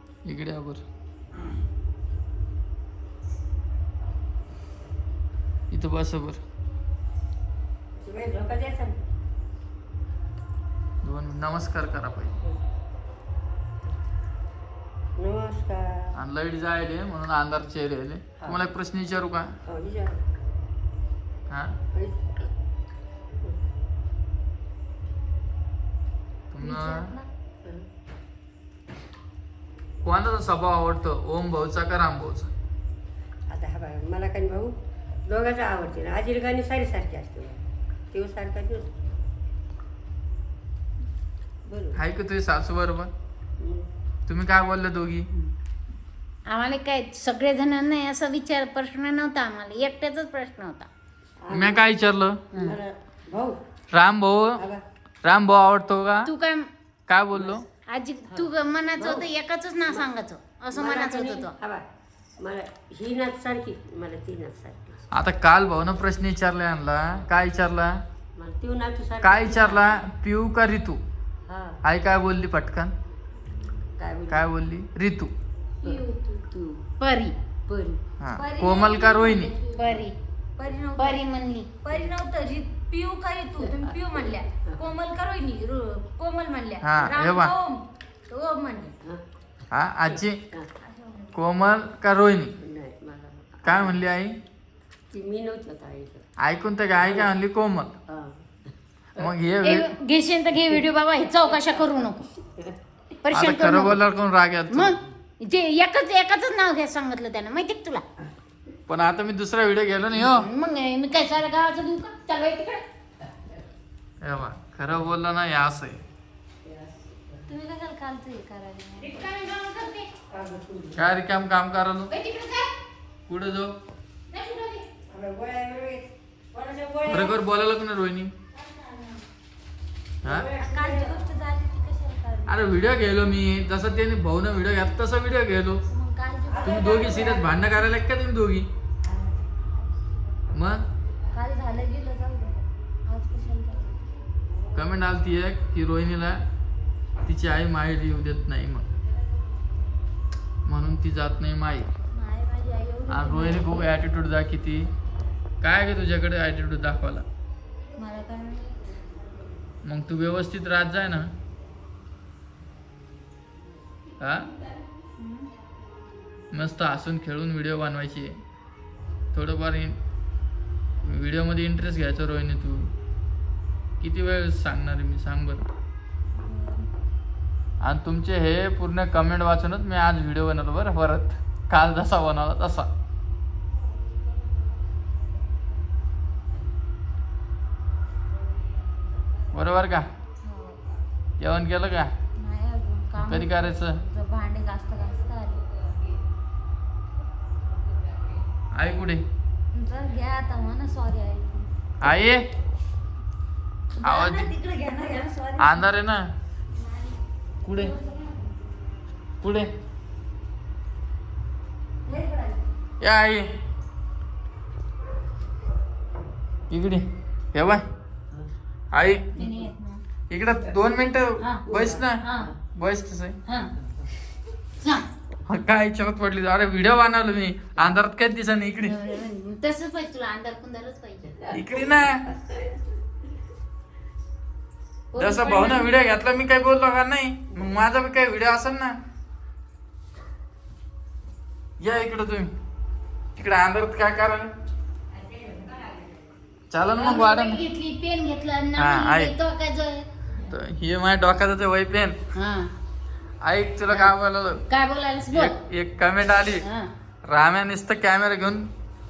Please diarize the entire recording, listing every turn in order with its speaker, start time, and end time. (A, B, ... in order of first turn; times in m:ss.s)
0:00.2-0:00.8 A
0:05.7-0:06.4 A
0:08.0-0:09.0 B
0:11.0-0:12.4 A
0:15.2-0:16.2 B
0:16.2-0:19.5 A
0:18.4-0:18.7 B
0:19.7-0:20.2 B
0:21.5-0:21.8 A
0:21.9-0:22.3 B
0:26.5-0:27.1 A
0:26.6-0:27.2 C
0:30.0-0:32.5 A
0:33.5-0:39.0 B
0:41.6-0:42.0 B
0:41.9-0:43.1 A
0:43.6-0:43.9 B
0:44.3-0:45.3 A
0:46.5-0:50.9 D
0:51.4-0:51.8 B
0:51.5-0:52.5 A
0:52.5-0:53.6 B
0:53.9-0:54.6 A
0:54.6-0:54.8 B
0:55.2-0:56.3 A
0:56.3-0:56.7 D
0:57.1-0:57.7 A
0:57.9-1:01.5 D
0:58.3-0:59.3 B
1:00.7-1:01.9 B
1:02.4-1:05.0 B
1:05.1-1:08.0 A
1:08.4-1:10.0 B
1:09.2-1:11.0 A
1:11.5-1:11.8 B
1:11.8-1:12.9 A
1:14.0-1:14.4 B
1:14.3-1:15.3 A
1:15.8-1:16.6 C
1:15.8-1:16.8 B
1:17.0-1:17.3 D
1:17.7-1:18.0 B
1:18.2-1:19.6 A
1:18.4-1:20.0 C
1:19.7-1:20.1 D
1:20.6-1:21.2 C
1:21.0-1:21.7 D
1:21.8-1:29.0 C
1:26.8-1:27.6 A
1:29.7-1:30.5 A
1:30.5-1:30.8 B
1:30.8-1:31.3 C
1:31.3-1:32.6 A
1:32.6-1:34.0 B
1:33.6-1:34.4 A
1:35.1-1:36.2 B
1:36.4-1:38.0 A
1:37.0-1:37.3 B
1:38.1-1:38.4 B
1:39.2-1:39.9 A
1:39.6-1:42.3 D
1:41.5-1:41.8 B
1:43.2-1:44.0 D
1:43.3-1:45.0 A
1:44.7-1:48.0 D
1:48.9-1:50.5 A
1:50.2-1:52.8 D
1:54.2-1:56.0 A
1:56.6-1:57.4 B
1:57.5-1:59.3 C
1:59.0-2:00.1 D
2:00.3-2:01.1 B
2:01.0-2:02.1 A
2:02.1-2:02.7 D
2:03.3-2:03.8 A
2:04.3-2:04.9 D
2:05.1-2:07.4 B
2:07.1-2:08.3 A
2:10.2-2:10.5 A
2:10.2-2:11.3 B
2:10.6-2:12.9 C
2:12.5-2:15.8 A
2:15.9-2:17.4 C
2:16.6-2:18.7 A
2:17.0-2:17.5 B
2:20.5-2:20.9 A
2:21.3-2:24.0 C
2:24.7-2:26.4 A
2:27.2-2:28.9 A
2:30.7-2:32.0 A
2:32.1-2:33.9 C
2:33.1-2:34.9 A
2:35.6-2:37.3 A
2:38.0-2:38.7 C
2:39.8-2:41.3 A
2:44.2-2:44.5 A
2:46.5-2:48.4 A
2:49.3-2:50.0 A
2:51.0-2:52.9 A
2:54.0-2:55.7 A
2:56.4-2:56.9 C
2:57.8-3:02.9 A
3:09.5-3:10.1 A
3:10.4-3:10.8 C
3:11.4-3:12.1 A
3:12.4-3:15.6 C
3:13.2-3:14.0 A
3:18.7-3:19.3 A
3:19.7-3:21.7 C
3:22.0-3:22.5 A
3:24.0-3:26.0 C
3:24.0-3:24.6 A
3:25.6-3:26.3 A
3:27.6-3:28.0 A
3:27.7-3:28.5 C
3:29.4-3:29.7 A
3:32.1-3:32.6 C
3:33.0-3:33.5 A
3:36.7-3:37.9 A
3:38.9-3:39.3 A
3:39.3-3:40.0 D
3:39.4-3:39.7 C
3:40.3-3:42.2 A
3:41.4-3:41.7 D
3:41.7-3:42.0 B
3:42.8-3:43.4 A
3:43.5-3:43.7 D
3:44.8-3:45.1 D
3:45.5-3:49.0 A
3:48.8-3:51.5 D
3:51.5-3:52.3 A
3:55.1-3:55.9 D
3:55.2-3:59.0 A
4:01.8-4:02.5 A
4:03.4-4:04.5 A
4:06.7-4:07.6 A
4:06.9-4:10.1 D
4:08.8-4:09.3 A
4:10.5-4:12.2 A
4:12.4-4:12.7 D
4:13.4-4:14.6 A
4:14.7-4:15.6 D
4:15.3-4:16.6 A
4:16.6-4:16.9 D
4:17.3-4:18.7 A